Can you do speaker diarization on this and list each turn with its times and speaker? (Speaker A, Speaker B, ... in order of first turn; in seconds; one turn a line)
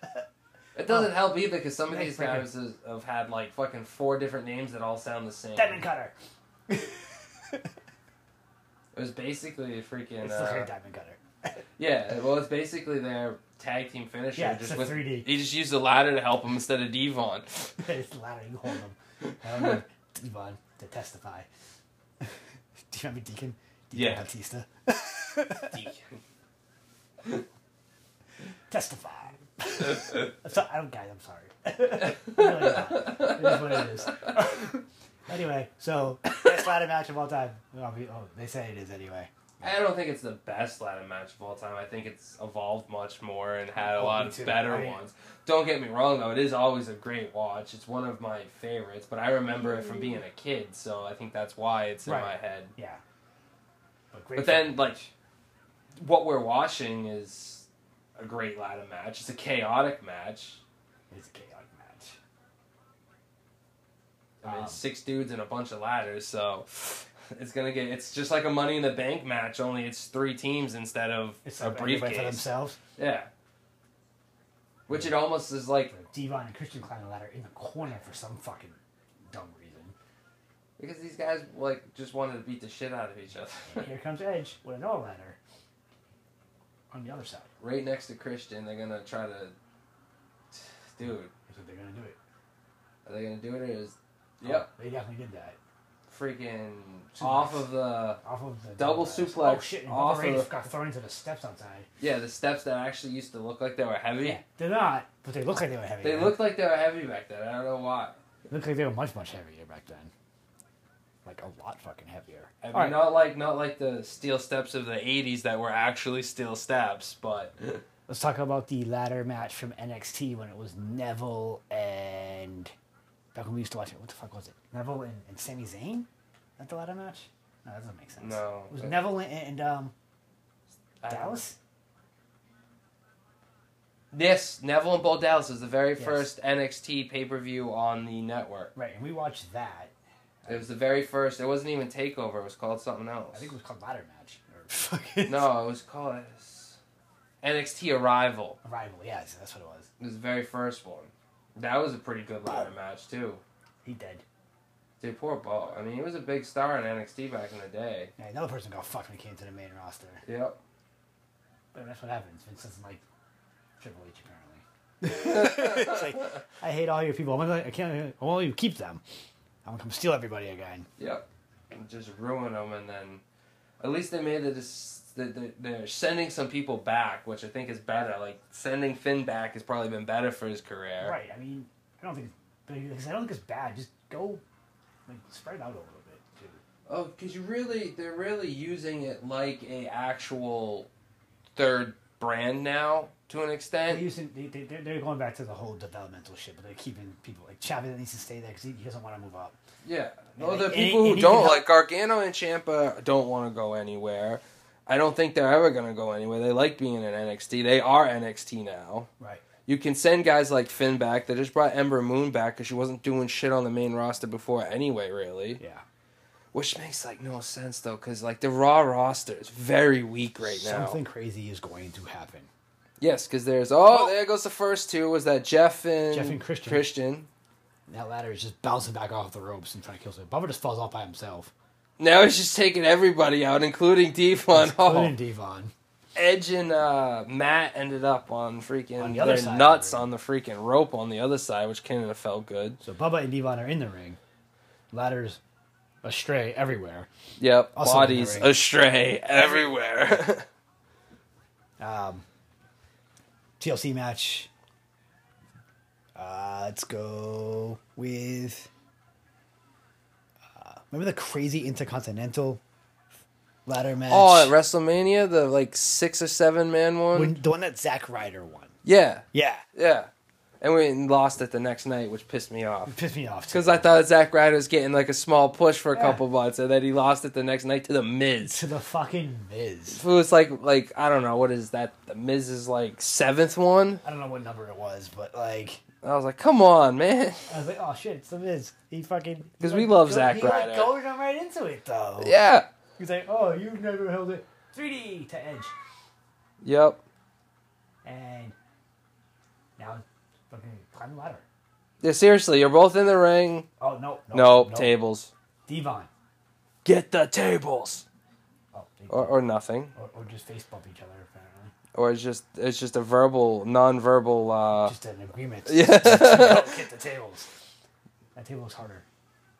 Speaker A: 0.8-5.8
Speaker B: 0.9-1.2
Speaker B: 1.9-2.5
Speaker B: 5.6-6.1
Speaker B: 6.7-7.6
Speaker A: 8.9-10.7
Speaker B: 10.2-11.2
Speaker A: 11.8-17.8
Speaker B: 14.3-15.3
Speaker B: 17.8-21.5
Speaker B: 22.9-25.8
Speaker A: 23.9-24.3
Speaker A: 25.7-26.2
Speaker B: 28.7-39.3
Speaker A: 29.8-30.3
Speaker A: 32.3-33.9
Speaker A: 39.6-52.7
Speaker B: 43.9-45.0
Speaker B: 52.0-53.0
Speaker B: 54.1-55.1
Speaker A: 54.4-55.0
Speaker A: 56.0-60.6
Speaker B: 61.1-62.2
Speaker A: 64.4-73.3
Speaker B: 64.4-64.8
Speaker B: 71.5-72.8
Speaker A: 74.9-75.9
Speaker B: 74.9-75.2
Speaker B: 75.9-78.8
Speaker B: 79.3-80.0
Speaker A: 80.8-83.9
Speaker B: 83.7-85.4
Speaker B: 86.9-87.5
Speaker A: 87.6-89.5
Speaker A: 90.5-91.3
Speaker B: 91.5-92.2
Speaker A: 93.0-94.7
Speaker B: 94.4-95.6
Speaker A: 96.1-98.2
Speaker B: 97.2-101.9
Speaker A: 98.8-100.5
Speaker A: 102.0-104.4
Speaker B: 104.2-106.4
Speaker A: 106.0-108.2
Speaker B: 108.5-110.1
Speaker B: 111.2-113.1
Speaker A: 112.6-117.8
Speaker B: 118.1-122.7
Speaker B: 123.3-126.1
Speaker B: 126.6-129.9
Speaker A: 128.2-129.0
Speaker A: 131.0-131.4
Speaker B: 131.1-131.6
Speaker A: 134.1-138.7
Speaker B: 136.0-136.3
Speaker B: 138.8-139.9
Speaker B: 140.4-140.7
Speaker A: 140.5-143.5
Speaker B: 143.3-145.5
Speaker A: 145.3-146.8
Speaker A: 147.4-148.6
Speaker B: 148.6-149.9
Speaker A: 150.0-153.4
Speaker B: 152.4-152.7
Speaker B: 153.8-154.2
Speaker A: 155.0-158.1
Speaker B: 158.2-160.2
Speaker A: 160.3-160.6
Speaker B: 161.7-163.0
Speaker B: 163.8-169.0
Speaker A: 165.1-166.2
Speaker B: 169.7-170.9
Speaker A: 171.0-173.2
Speaker A: 173.8-181.2
Speaker B: 181.0-184.4
Speaker B: 185.1-186.6
Speaker A: 186.9-190.9
Speaker A: 191.6-194.1
Speaker B: 193.9-199.6
Speaker A: 199.8-209.1
Speaker B: 200.3-201.7
Speaker B: 209.2-209.4
Speaker A: 209.7-215.6
Speaker B: 215.6-215.8
Speaker A: 216.5-221.0
Speaker B: 220.4-222.5
Speaker A: 223.0-227.3
Speaker B: 223.9-224.2
Speaker B: 226.1-226.9
Speaker B: 227.9-231.5
Speaker A: 232.0-235.2
Speaker B: 234.5-235.7
Speaker A: 236.2-242.8
Speaker B: 239.0-240.1
Speaker B: 242.8-244.2
Speaker B: 244.9-245.4
Speaker B: 246.0-247.1
Speaker A: 247.4-250.5
Speaker B: 247.7-248.6
Speaker B: 249.4-249.8
Speaker B: 251.8-252.2
Speaker B: 253.6-254.5
Speaker B: 256.1-258.7
Speaker B: 260.6-262.6
Speaker B: 263.7-264.5
Speaker A: 264.1-267.4
Speaker B: 267.1-268.8
Speaker A: 268.9-270.1
Speaker B: 269.3-269.6
Speaker A: 270.6-273.0
Speaker B: 272.9-273.9
Speaker A: 273.5-278.6
Speaker B: 275.9-276.2
Speaker B: 278.4-280.0
Speaker A: 279.9-284.0
Speaker B: 284.0-285.8
Speaker A: 286.0-287.5
Speaker B: 287.5-292.4
Speaker A: 289.6-290.9
Speaker A: 292.2-292.7
Speaker B: 293.0-295.7
Speaker A: 296.6-297.0
Speaker B: 298.0-298.6
Speaker B: 299.8-301.4
Speaker A: 302.0-303.7
Speaker B: 303.8-304.9
Speaker A: 304.3-305.3
Speaker B: 305.7-306.1
Speaker A: 306.9-308.1
Speaker B: 308.7-309.4
Speaker A: 309.1-309.9
Speaker B: 309.9-311.7
Speaker A: 311.9-314.9
Speaker B: 314.8-317.5
Speaker A: 315.7-316.8
Speaker B: 318.4-319.1